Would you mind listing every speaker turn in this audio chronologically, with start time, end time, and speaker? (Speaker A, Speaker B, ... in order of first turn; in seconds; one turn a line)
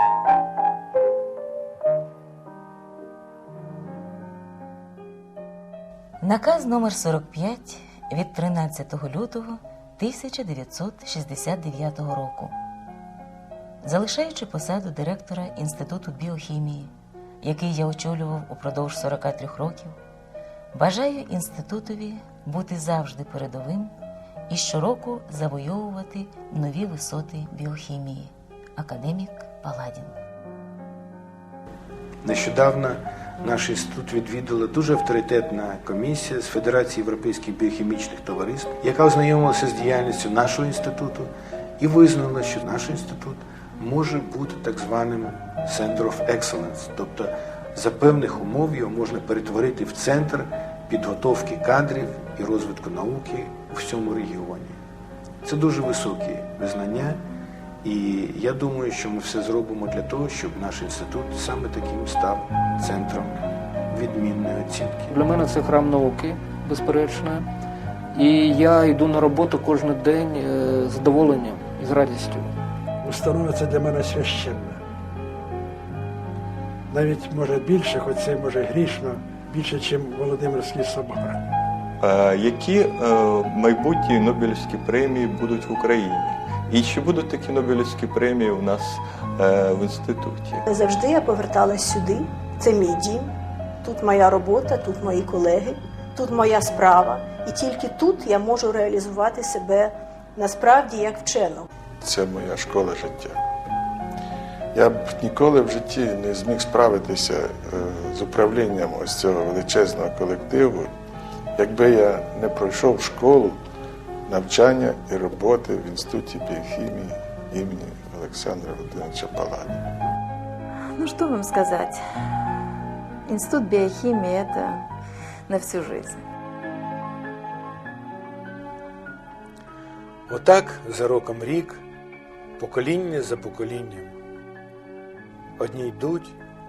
Speaker A: 6.2-12.6
Speaker A: 13.8-20.0
Speaker A: 20.7-23.9
Speaker A: 24.5-30.2
Speaker B: 32.2-54.8
Speaker B: 55.4-57.2
Speaker B: 57.8-65.1
Speaker C: 65.1-67.5
Speaker C: 68.1-72.5
Speaker D: 73.0-74.8
Speaker D: 76.9-81.5
Speaker E: 82.0-90.6
Speaker F: 90.7-93.3
Speaker F: 93.8-101.7
Speaker G: 102.0-103.4
Speaker G: 104.7-110.9
Speaker G: 111.6-113.6
Speaker G: 114.3-119.8
Speaker H: 121.0-122.0
Speaker H: 123.3-124.8
Speaker H: 125.5-126.2
Speaker B: 130.3-131.8
Speaker B: 132.6-134.1
Speaker B: 135.6-136.4